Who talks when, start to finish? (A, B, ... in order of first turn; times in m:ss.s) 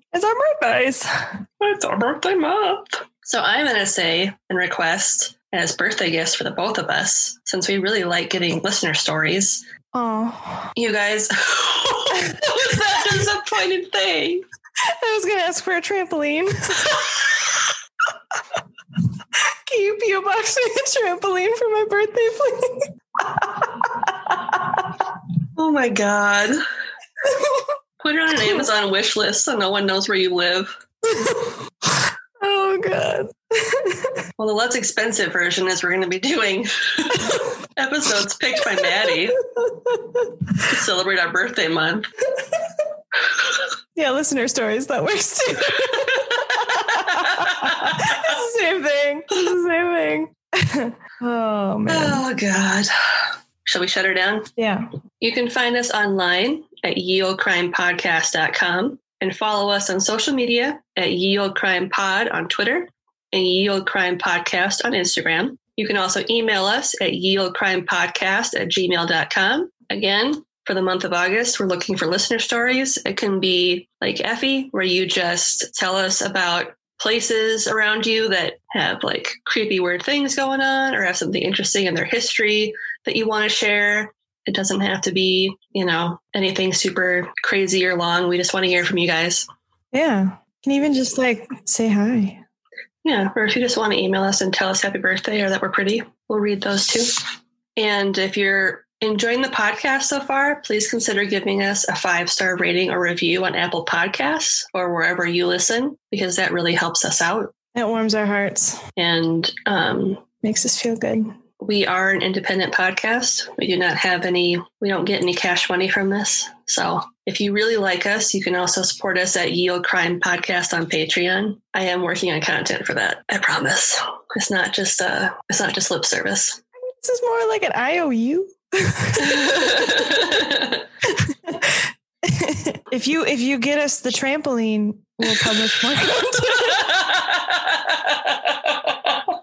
0:00.1-0:01.4 A
0:01.6-0:09.6 B
0:09.9-0:10.7 A
0:10.8-0:14.4 B
0:12.2-0:12.8 A
0:14.8-0:17.4 A
0:19.7-0:24.9 A
0:25.6-0:26.6 B
0:28.0-0:30.8 B
0:31.0-0:34.3 A
0:34.4-0:39.4 B
0:39.4-0:40.4 A
0:40.7-0:42.1 B
0:44.0-0:52.2 A
0:46.1-0:48.0 B
0:51.9-0:54.5 B
0:54.6-0:54.9 A
0:55.2-1:29.5 B
1:29.9-1:32.4 A
1:33.0-1:37.2 B
1:37.8-1:47.5 B
1:47.8-1:48.8 A
1:49.0-1:50.2 B
1:50.4-1:51.3 A
1:51.6-2:06.6 B
2:06.8-2:10.4 A
2:09.2-2:10.8 B
2:11.1-2:16.9 A
2:16.5-2:19.1 B